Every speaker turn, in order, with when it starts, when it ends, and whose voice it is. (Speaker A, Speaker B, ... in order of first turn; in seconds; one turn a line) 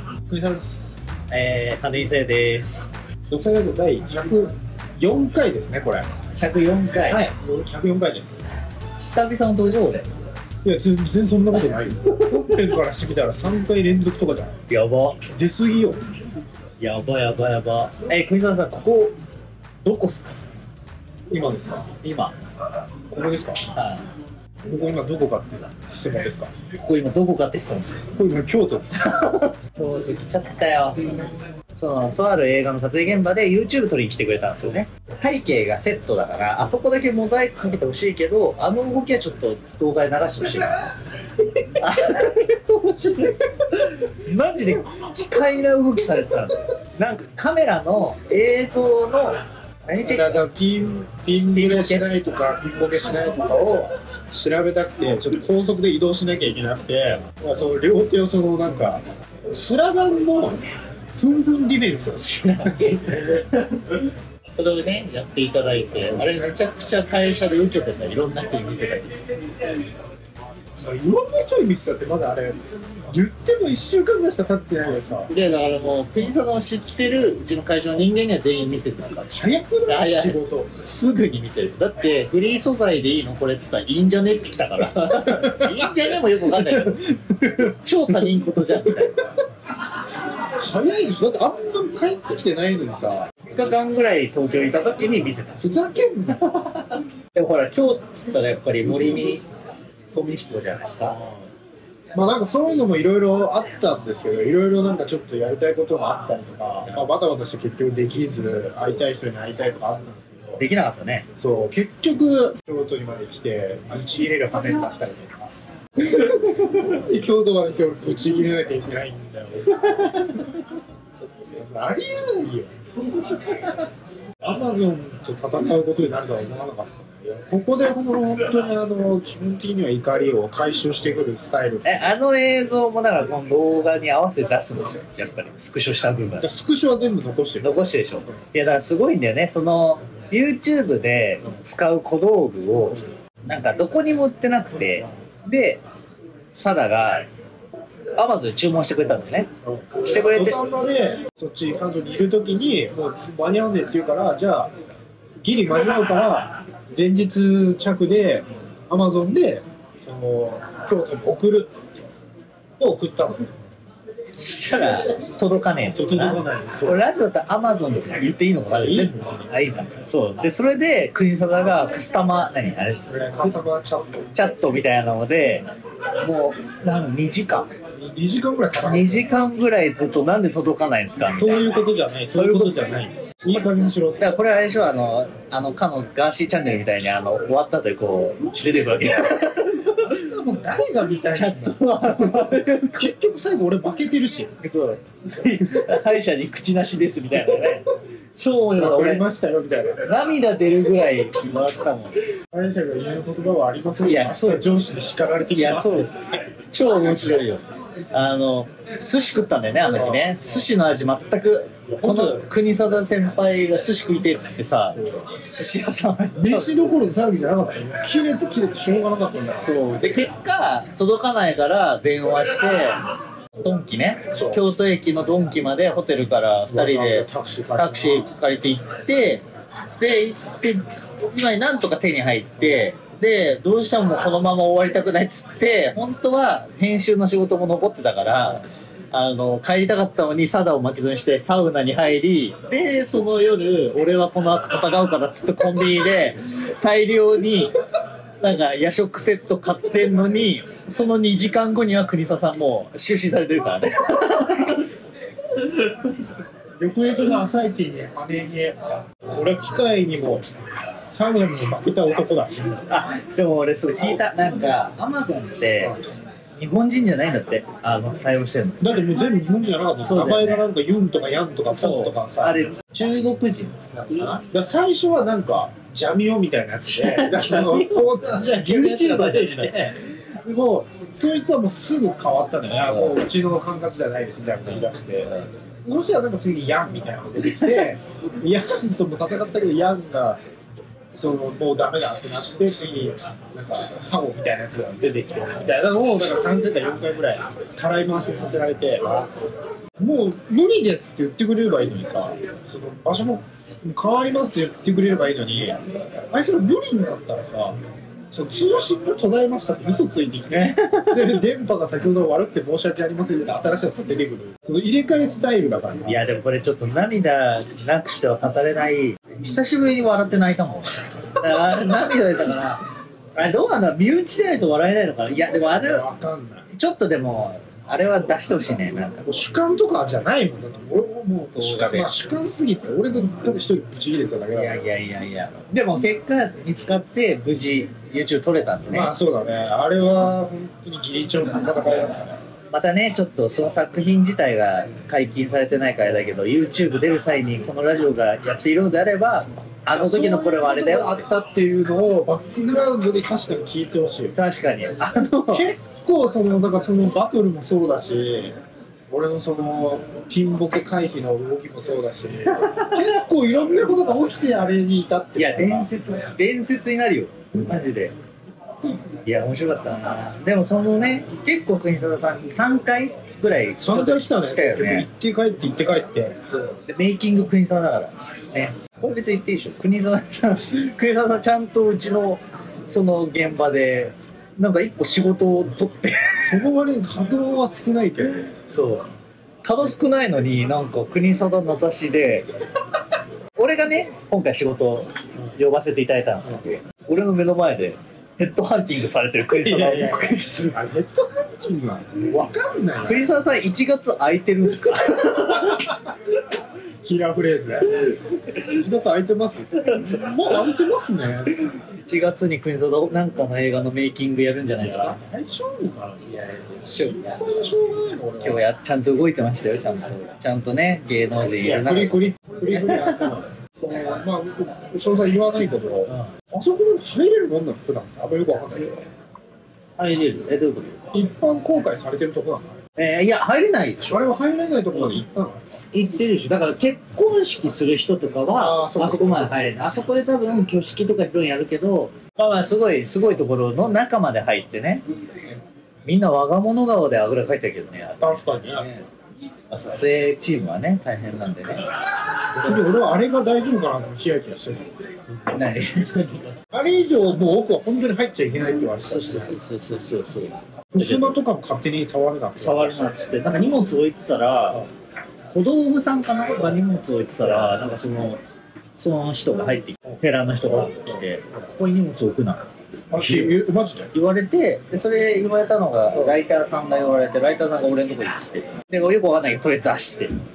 Speaker A: 0.3-0.9
Speaker B: 1.3-2.9
Speaker A: 3.3-6.1
Speaker B: 6.3-7.2
Speaker A: 7.1-8.4
Speaker B: 8.9-10.1
Speaker A: 10.6-14.5
Speaker B: 11.8-12.8
Speaker B: 14.7-15.2
Speaker A: 15.3-16.0
Speaker B: 16.8-19.2
Speaker B: 19.8-20.3
Speaker A: 21.3-21.9
Speaker B: 22.0-22.3
Speaker A: 23.1-23.7
Speaker B: 23.7-24.1
Speaker A: 24.6-26.5
Speaker B: 26.8-28.1
Speaker A: 28.1-28.9
Speaker B: 28.9-31.1
Speaker B: 31.7-40.8
Speaker B: 41.8-50.4
Speaker A: 50.0-60.6
Speaker B: 51.5-52.2
Speaker A: 61.1-62.9
Speaker B: 62.1-69.1
Speaker A: 70.7-75.3
Speaker B: 75.3-87.0
Speaker A: 79.3-80.7
Speaker A: 85.1-85.9
Speaker A: 86.7-88.3
Speaker B: 87.5-89.2
Speaker A: 90.4-93.3
Speaker B: 93.4-95.6
Speaker A: 95.6-96.4
Speaker B: 96.4-99.4
Speaker B: 100.1-101.2
Speaker A: 101.0-101.4
Speaker A: 102.1-110.7
Speaker B: 110.6-111.3
Speaker A: 111.4-120.6
Speaker B: 119.8-120.4
Speaker A: 121.5-122.7
Speaker A: 124.4-132.0
Speaker B: 131.8-136.5
Speaker A: 136.4-137.8
Speaker B: 137.6-145.8
Speaker B: 146.5-147.3
Speaker B: 148.2-149.5
Speaker A: 149.6-154.7
Speaker B: 150.0-150.6
Speaker A: 155.4-161.9
Speaker A: 162.8-163.5
Speaker B: 164.3-173.6
Speaker A: 165.8-167.0
Speaker A: 168.7-169.5
Speaker A: 173.1-174.3
Speaker B: 174.3-175.7
Speaker B: 176.2-177.7
Speaker A: 177.9-179.4
Speaker B: 178.8-181.8
Speaker A: 181.2-184.3
Speaker B: 182.3-182.8
Speaker B: 184.2-190.1
Speaker A: 188.6-189.2
Speaker A: 190.0-194.5
Speaker B: 191.3-193.1
Speaker B: 194.6-199.2
Speaker A: 197.3-197.8
Speaker A: 198.8-200.0
Speaker B: 200.1-202.1
Speaker A: 202.5-206.1
Speaker B: 204.0-204.7
Speaker B: 205.5-216.8
Speaker A: 209.8-210.7
Speaker A: 211.9-212.5
Speaker A: 214.9-215.2
Speaker A: 216.4-219.7
Speaker B: 219.5-223.0
Speaker B: 223.6-229.4
Speaker A: 224.3-224.6
Speaker A: 226.7-228.3
Speaker B: 230.0-247.7
Speaker B: 248.4-255.0
Speaker B: 255.6-256.2
Speaker A: 256.8-260.4
Speaker A: 261.1-262.8
Speaker B: 262.9-266.0
Speaker B: 266.6-269.0
Speaker A: 268.8-272.7
Speaker B: 270.0-270.6
Speaker B: 271.7-274.4
Speaker A: 274.5-285.3
Speaker B: 276.9-279.9
Speaker B: 282.8-283.2
Speaker A: 285.8-290.4
Speaker B: 287.4-287.9
Speaker A: 291.1-299.3
Speaker A: 300.0-305.8
Speaker A: 306.3-307.8
Speaker A: 308.3-316.2
Speaker B: 310.5-311.4
Speaker B: 316.1-322.8
Speaker B: 323.4-326.0
Speaker A: 325.7-326.6
Speaker B: 326.7-329.5
Speaker A: 329.2-334.8
Speaker B: 331.5-332.1
Speaker B: 334.5-339.1
Speaker A: 338.9-342.3
Speaker B: 341.6-351.2
Speaker A: 349.9-354.3
Speaker B: 354.3-355.7
Speaker A: 355.5-358.5
Speaker A: 359.1-365.9
Speaker B: 362.5-363.0
Speaker B: 365.4-368.1
Speaker B: 369.2-375.1
Speaker A: 373.8-376.4
Speaker B: 376.5-386.6
Speaker A: 386.4-388.5
Speaker B: 388.6-389.1
Speaker B: 389.6-392.5
Speaker B: 393.6-400.8
Speaker A: 399.6-403.4
Speaker B: 403.1-405.9
Speaker A: 405.2-406.0
Speaker A: 407.0-411.5
Speaker B: 409.8-410.4
Speaker B: 411.7-415.2
Speaker A: 414.8-418.6
Speaker B: 416.2-417.3
Speaker B: 418.4-423.4
Speaker A: 421.5-429.0
Speaker B: 430.0-431.0
Speaker A: 431.1-432.8
Speaker B: 433.0-434.3
Speaker A: 434.1-435.6
Speaker B: 434.9-435.2
Speaker B: 435.9-445.0
Speaker A: 438.5-439.6
Speaker B: 446.0-449.1
Speaker A: 448.2-448.9
Speaker B: 449.7-451.8
Speaker A: 452.6-455.6
Speaker B: 452.6-452.8
Speaker B: 455.5-456.6
Speaker A: 456.7-459.6
Speaker B: 459.0-461.4
Speaker A: 460.9-463.2
Speaker B: 462.6-464.8
Speaker B: 465.5-468.4
Speaker A: 467.6-467.9
Speaker B: 469.0-472.6
Speaker A: 470.1-471.7
Speaker A: 473.1-474.1
Speaker B: 473.1-473.6
Speaker B: 474.1-480.3